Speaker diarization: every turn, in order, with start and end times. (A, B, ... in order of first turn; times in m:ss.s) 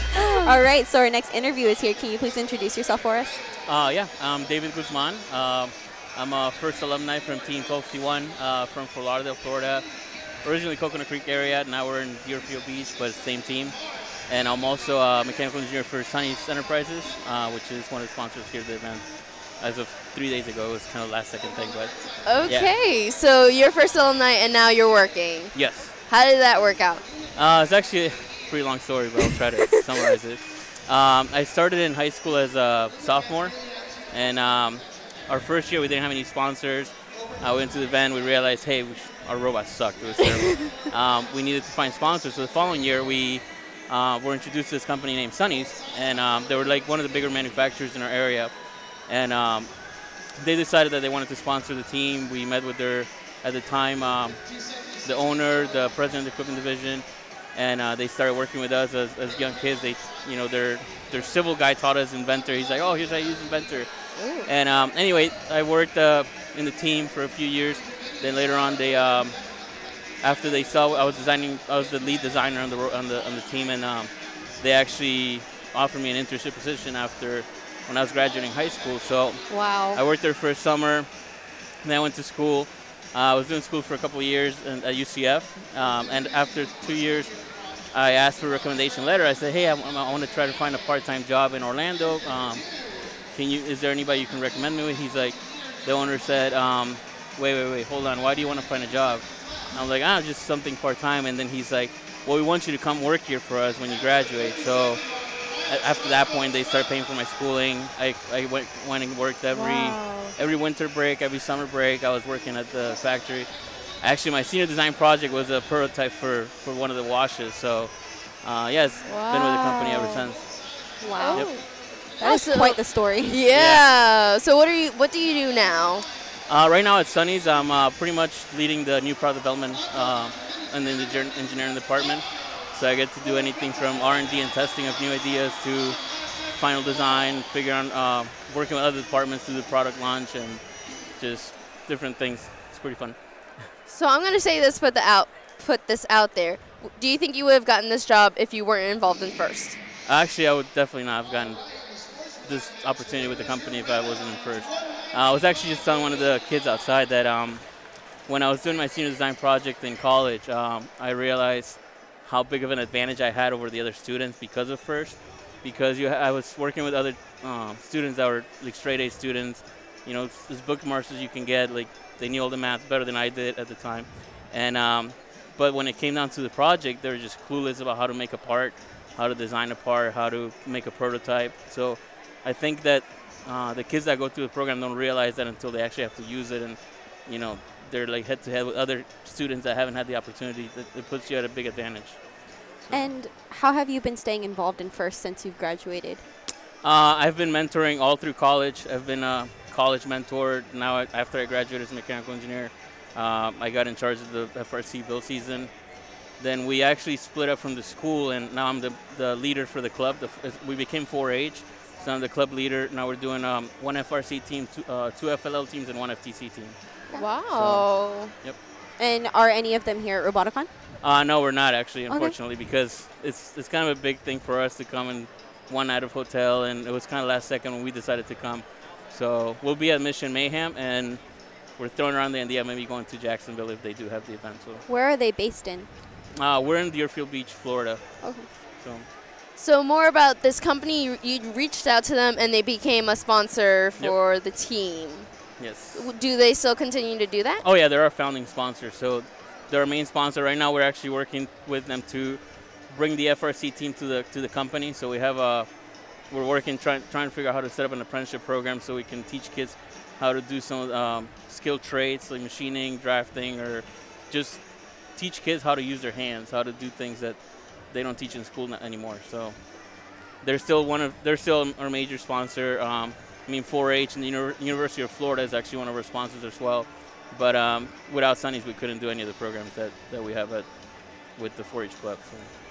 0:00.1-0:03.4 A
0:00.2-0:00.5 B
0:03.6-0:22.7 C
0:22.2-0:27.1 B
0:25.5-0:26.0 C
0:27.3-2:01.5 C
1:04.2-1:04.5 B
1:19.5-1:20.0 B
1:49.5-1:50.4 B
1:59.0-2:00.3 B
2:01.0-2:01.6 A
2:01.2-2:06.1 B
2:02.2-2:03.4 A
2:03.5-2:03.8 C
2:06.4-2:23.7 C
2:23.8-2:29.8 B
2:30.0-3:13.1 C
3:12.9-3:16.2 A
3:16.8-3:25.7 C
3:26.3-3:38.6 C
3:37.1-3:38.3 B
3:39.0-3:40.7 A
3:41.0-3:54.8 C
3:42.1-3:42.4 A
3:54.9-3:56.0 A
3:56.3-3:59.1 C
3:58.2-3:58.5 A
3:59.5-4:07.6 B
4:05.6-4:06.1 C
4:07.6-4:42.5 C